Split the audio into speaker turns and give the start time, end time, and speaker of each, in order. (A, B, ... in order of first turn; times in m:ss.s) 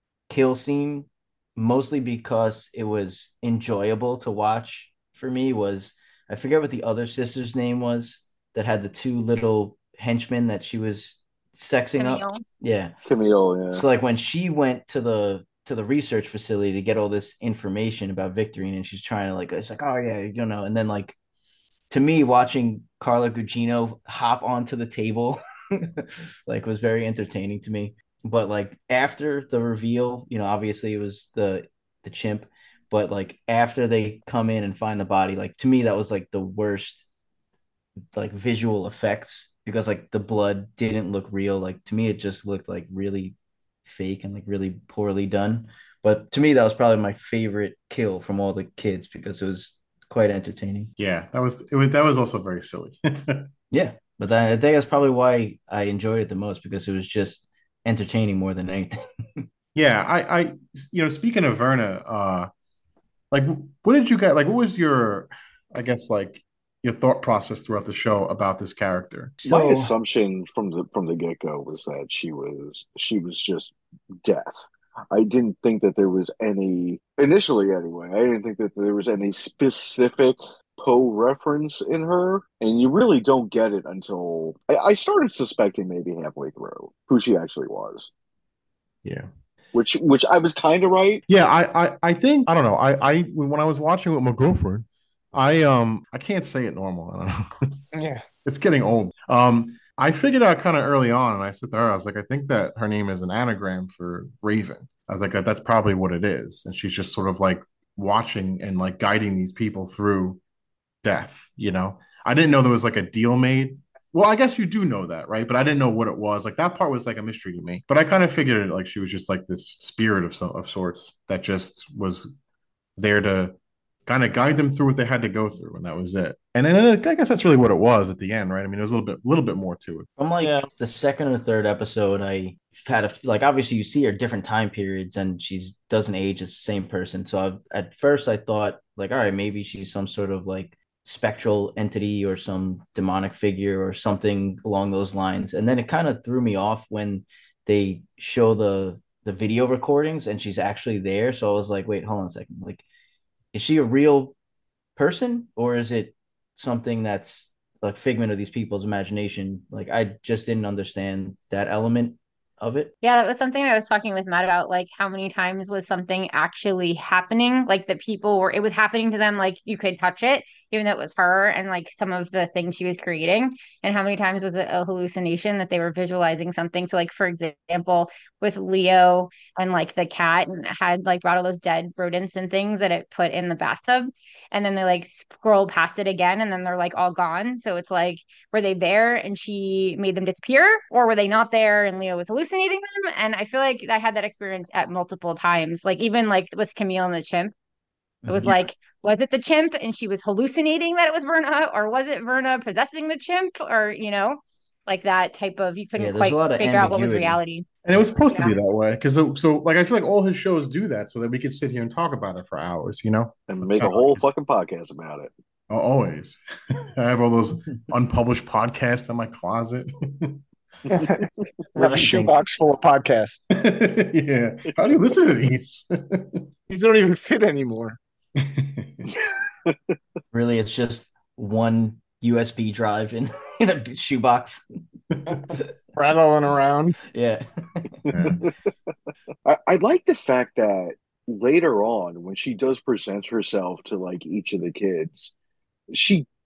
0:00.3-0:12.9 A
0:12.0-0:12.4 B
0:13.0-0:13.8 C
0:13.7-0:21.2 A
0:21.9-0:37.0 A
0:38.1-0:50.9 A
0:51.0-0:53.5 D
0:53.7-0:59.4 A
0:59.7-1:02.5 D
1:03.3-1:09.4 D
1:09.4-1:28.1 C
1:09.4-1:09.9 A
1:29.7-1:31.2 C
1:31.3-1:37.8 D
1:37.9-1:38.2 E
1:38.4-1:50.4 D
1:51.0-2:02.3 D
2:03.0-2:10.1 D
2:10.2-2:32.8 A
2:10.4-2:10.7 E
2:33.5-2:34.4 A
2:35.0-2:42.9 A
2:43.0-3:17.5 B
3:18.2-3:18.6 A
3:18.3-3:27.7 B
3:26.0-3:27.4 A
3:27.8-3:34.3 D
3:28.3-3:28.5 B
3:33.5-3:35.3 C
3:35.7-3:36.4 D
3:36.9-3:40.4 D
3:40.9-3:43.4 E
3:41.8-3:42.4 A
3:43.5-3:46.4 D
3:46.7-3:48.0 E
3:48.4-3:49.1 D
3:49.3-3:49.8 C
3:50.3-3:54.6 A
3:55.1-3:55.4 D
3:55.3-3:57.0 E
3:57.0-3:58.0 A
3:58.1-3:58.4 D
3:58.1-3:58.9 C
3:59.4-4:05.3 C
4:05.9-4:06.3 C